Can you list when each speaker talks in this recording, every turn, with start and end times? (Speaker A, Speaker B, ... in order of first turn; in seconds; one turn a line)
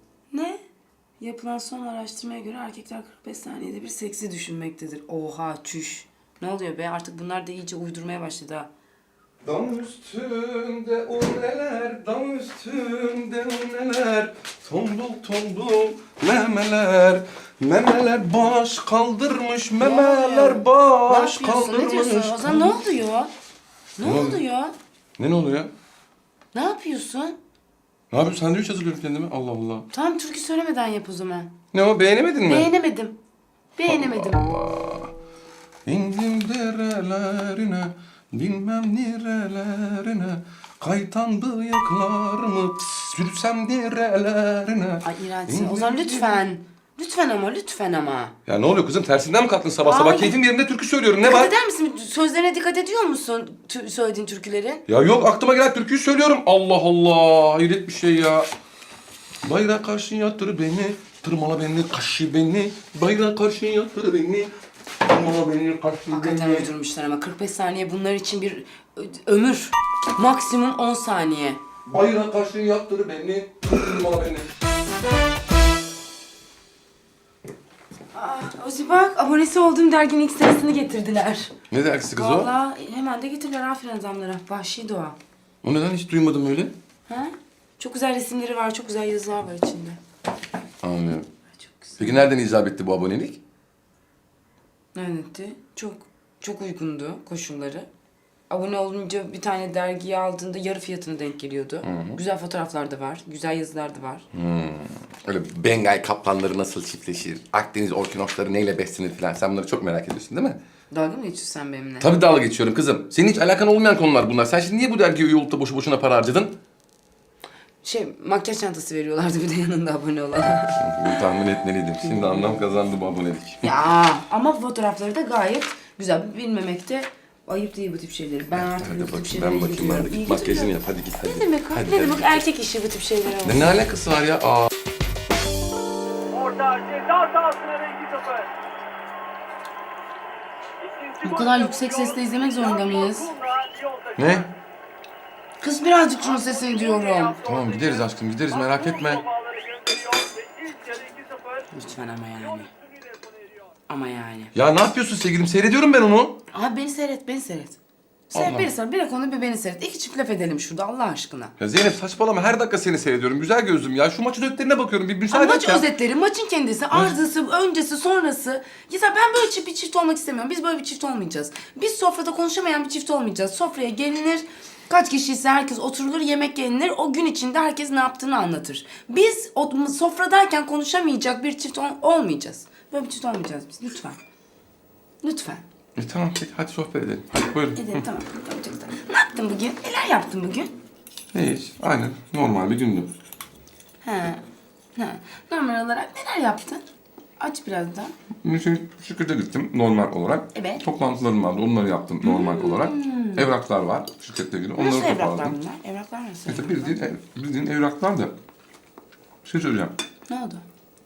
Speaker A: 0.3-0.6
Speaker A: 1.2-8.7
Speaker B: 9.4-22.8
Speaker A: 19.8-23.3
Speaker A: 24.0-24.7
Speaker B: 24.0-24.4
Speaker B: 25.2-25.7
Speaker A: 26.5-27.4
Speaker B: 28.1-29.9
Speaker A: 29.9-31.5
Speaker B: 31.7-32.7
Speaker A: 32.5-33.2
Speaker A: 33.8-34.5
Speaker B: 33.9-35.1
Speaker B: 35.9-46.5
Speaker A: 45.0-48.4
Speaker B: 48.5-51.5
Speaker A: 49.8-50.4
Speaker A: 51.2-54.8
Speaker B: 54.9-58.5
Speaker B: 59.4-66.7
Speaker A: 66.1-71.6
Speaker B: 71.8-74.5
Speaker A: 78.1-81.5
Speaker B: 81.7-82.5
Speaker A: 82.2-85.2
Speaker B: 85.6-86.8
Speaker A: 87.1-90.0
Speaker B: 90.8-91.3
Speaker A: 91.6-92.2
Speaker B: 92.0-93.4
Speaker A: 94.9-97.9
Speaker A: 98.5-104.2
Speaker B: 101.8-102.2
Speaker B: 104.3-110.6
Speaker A: 110.9-112.1
Speaker B: 112.0-116.6
Speaker A: 117.8-121.2
Speaker B: 120.8-123.7
Speaker A: 122.0-122.6
Speaker A: 123.6-133.8
Speaker B: 128.5-132.4
Speaker B: 133.4-134.7
Speaker C: 136.3-138.5
Speaker C: 140.8-141.9
Speaker A: 141.2-143.4
Speaker C: 143.1-144.2
Speaker B: 144.2-144.5
Speaker A: 145.6-147.4
Speaker C: 146.7-147.8
Speaker B: 147.4-149.2
Speaker C: 149.0-151.6
Speaker A: 151.7-152.7
Speaker A: 153.9-154.5
Speaker B: 154.5-156.4
Speaker A: 156.5-157.8
Speaker A: 158.3-161.5
Speaker B: 158.3-158.7
Speaker B: 161.6-165.9
Speaker A: 165.3-184.2
Speaker B: 166.9-167.2
Speaker A: 185.2-185.6
Speaker B: 186.0-188.1
Speaker A: 187.8-190.7
Speaker B: 191.3-193.1
Speaker A: 194.0-194.4
Speaker A: 195.0-196.8
Speaker A: 197.4-198.1
Speaker B: 198.4-205.6
Speaker A: 200.5-200.9
Speaker A: 202.2-203.5
Speaker A: 204.8-207.0
Speaker B: 206.5-208.3
Speaker B: 209.4-209.9
Speaker A: 210.3-210.7